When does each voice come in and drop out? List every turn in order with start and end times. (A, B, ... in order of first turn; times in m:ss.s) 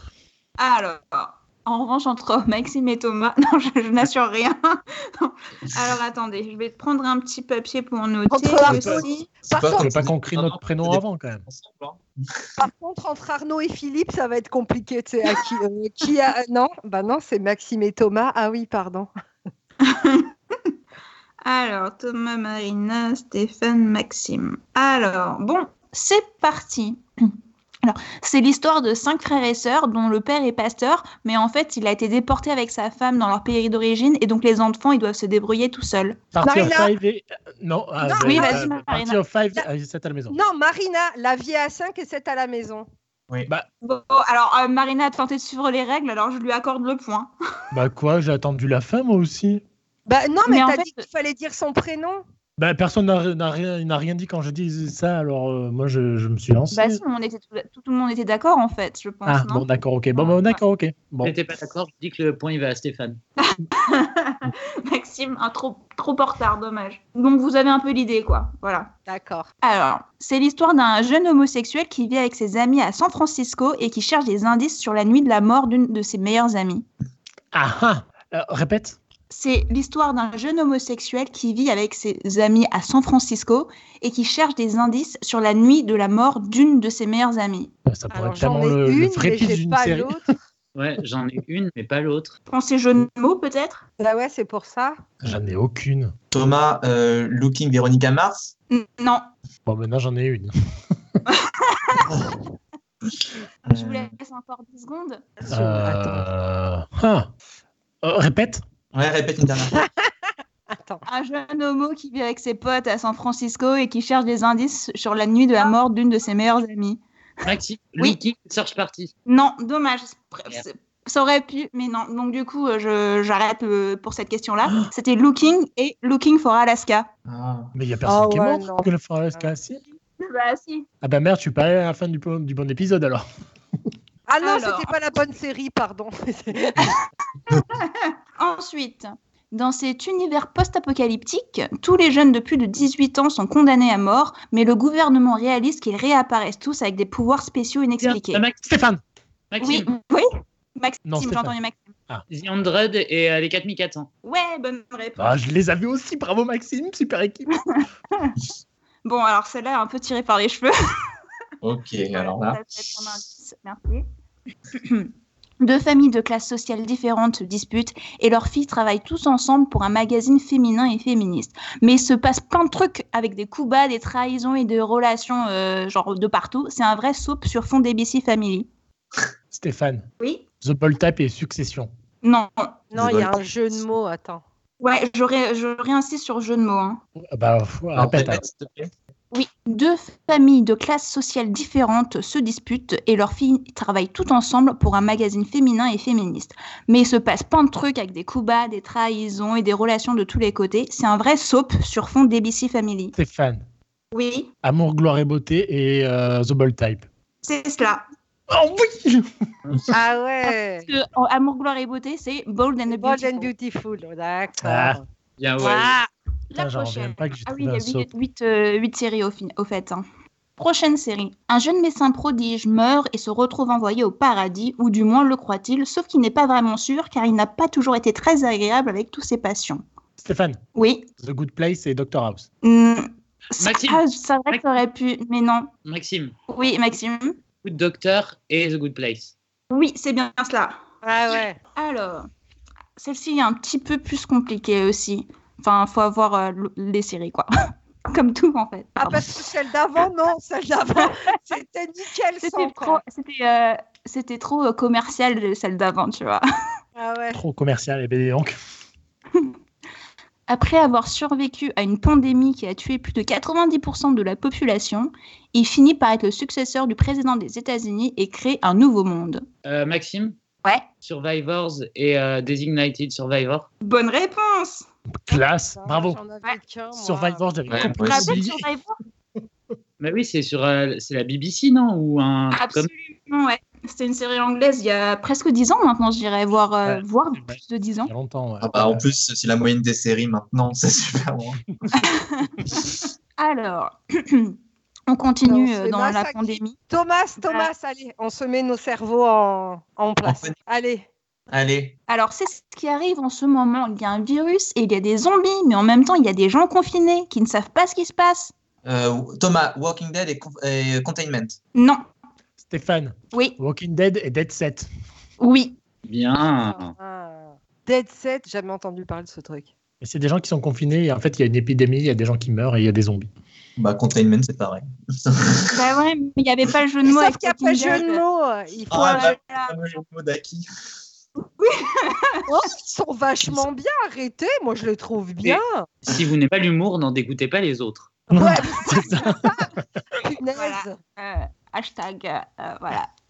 0:00.6-0:09.3 A
0:08.3-0:09.9 B
0:08.6-0:09.0 C
0:09.5-0:12.6 D
0:09.8-0:11.4 C
0:12.6-0:19.1 B
0:19.8-0:20.3 A
0:21.4-0:27.0 A
0:27.8-0:36.2 A
0:36.3-0:40.4 C
0:36.4-0:36.9 B
0:38.0-0:38.6 B
0:38.2-0:39.2 A
0:40.3-0:42.9 B
0:43.8-0:47.3 A
0:47.7-0:49.6 C
0:50.1-0:52.2 B
0:50.5-0:51.1 A
0:52.6-0:57.0 C
0:56.7-1:00.6 A
0:59.2-1:01.3 C
1:01.2-1:03.2 E
1:03.4-1:08.9 A
1:09.1-1:09.5 B
1:09.6-1:16.8 A
1:17.5-1:19.0 C
1:19.3-1:27.7 A
1:27.8-1:30.2 C
1:28.1-1:30.4 B
1:30.8-1:32.4 E
1:32.5-1:33.8 A
1:34.0-1:35.0 B
1:35.2-1:36.1 C
1:36.3-1:38.5 D
1:38.7-1:39.2 A
1:39.7-1:40.5 C
1:41.3-1:42.0 A
1:42.0-1:42.4 D
1:43.7-1:44.1 D
1:43.7-1:45.2 A
1:45.4-1:46.2 B
1:45.5-1:47.3 C
1:48.0-1:48.6 C
1:48.9-1:49.8 D
1:49.8-1:50.1 B
1:50.7-1:51.0 B
1:51.1-1:57.0 A
1:57.4-1:59.1 E
1:59.2-2:07.1 A
2:07.3-2:07.7 D
2:07.8-2:09.8 C
2:08.1-2:09.5 B
2:10.2-2:10.8 A
2:11.0-2:13.2 C
2:14.3-2:16.9 B
2:14.4-2:14.9 A
2:17.6-2:28.4 A
2:28.0-2:28.6 E
2:28.6-2:29.0 C
2:29.5-2:29.9 E
2:29.6-2:31.9 A
2:31.0-2:31.6 C
2:32.3-2:34.1 E
2:34.2-2:35.4 A
2:35.2-2:37.5 C
2:37.7-2:38.4 A
2:39.0-2:40.7 A
2:41.6-2:42.6 D
2:42.1-2:44.0 A
2:44.7-2:58.7 A
2:59.5-3:00.1 C
3:00.6-3:01.9 C
3:02.2-3:02.7 A
3:02.9-3:04.4 B
3:03.0-3:03.8 D
3:04.8-3:07.0 A
3:07.2-3:08.4 C
3:07.9-3:08.9 D
3:09.3-3:23.1 A
3:23.1-3:23.6 C
3:24.1-3:24.5 A
3:24.6-3:27.1 C
3:27.4-3:28.0 A
3:28.5-3:29.3 C
3:29.9-3:30.9 B
3:30.4-3:33.5 A
3:32.9-3:35.0 B
3:34.6-3:35.0 C
3:35.4-3:36.0 E
3:35.6-3:36.1 B
3:36.5-3:40.0 A
3:36.5-3:38.1 C
3:40.6-3:49.8 A
3:50.2-3:50.6 C
3:50.8-3:51.1 A
3:51.2-3:52.5 C
3:52.6-3:55.7 A
3:53.6-3:54.7 E
3:55.8-3:56.3 E
3:56.5-3:57.4 A
3:57.6-3:59.3 E
3:59.7-4:00.8 A
4:01.0-4:01.6 B
4:01.8-4:02.3 A
4:03.0-4:07.5 A
4:08.1-4:09.3 A
4:09.0-4:13.0 B
4:12.4-4:16.4 A
4:17.0-4:17.4 B
4:17.3-4:18.6 C
4:20.5-4:29.4 A
4:29.6-4:30.4 E
4:31.0-4:33.7 E
4:33.8-4:34.9 A
4:35.2-4:36.2 C
4:35.3-4:37.4 B
4:36.9-4:38.7 C
4:37.7-4:38.4 D
4:37.9-4:39.0 A
4:40.0-4:42.9 E
4:42.5-4:48.1 A
4:46.8-4:49.0 C
4:48.6-4:51.6 D
4:51.9-4:54.6 A
4:55.1-4:56.8 A
4:55.4-5:01.1 B
4:57.4-4:57.7 A
5:00.2-5:00.6 D
5:01.5-5:01.9 D
5:02.1-5:08.5 A
5:08.8-5:11.6 D
5:11.8-5:12.0 A
5:12.6-5:14.9 C
5:15.4-5:15.8 A
5:16.0-5:16.9 E
5:16.6-5:19.7 B
5:20.0-5:23.3 C
5:23.8-5:25.8 D
5:25.7-5:28.2 A
5:27.0-5:29.3 B
5:28.9-5:30.6 D
5:28.9-5:29.8 A
5:31.4-5:32.5 A
5:32.5-5:35.9 B
5:35.4-5:38.1 E
5:38.3-5:41.0 B
5:38.3-5:39.5 C
5:40.6-5:43.1 A